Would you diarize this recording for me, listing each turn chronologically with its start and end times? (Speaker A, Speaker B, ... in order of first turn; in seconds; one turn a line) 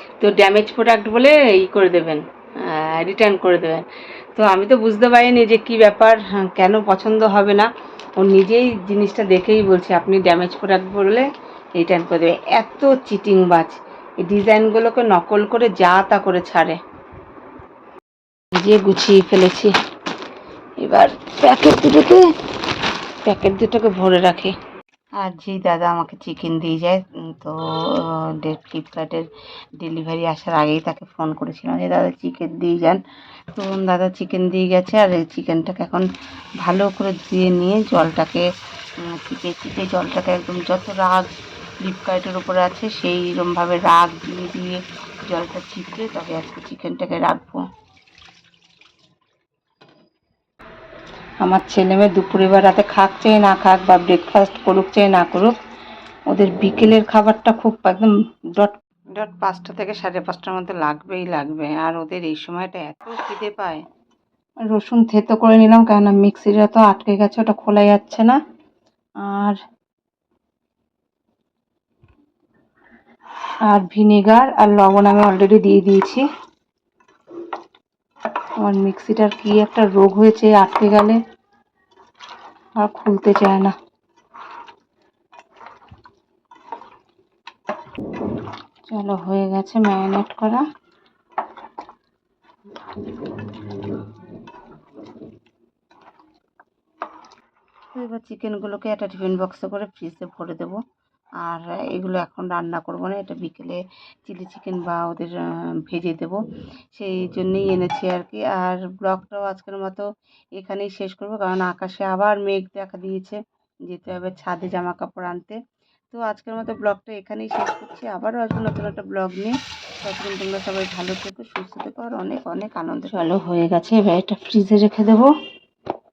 Speaker A: 0.2-16.8
Speaker A: 18.6-19.7
Speaker A: 20.8-22.3
Speaker A: 23.2-24.6
Speaker A: 25.2-29.3
Speaker A: 29.8-33.0
Speaker A: 33.5-36.1
Speaker A: 36.6-38.5
Speaker A: 39.0-41.3
Speaker A: 41.8-47.7
Speaker A: 51.4-55.6
Speaker A: 56.3-63.8
Speaker A: 64.7-68.4
Speaker A: 69.2-69.6
Speaker A: 73.7-76.2
Speaker A: 78.6-81.2
Speaker A: 82.8-83.7
Speaker A: 88.9-90.6
Speaker A: 97.9-100.8
Speaker A: 101.4-106.4
Speaker A: 107.0-115.6
Speaker A: 116.1-125.3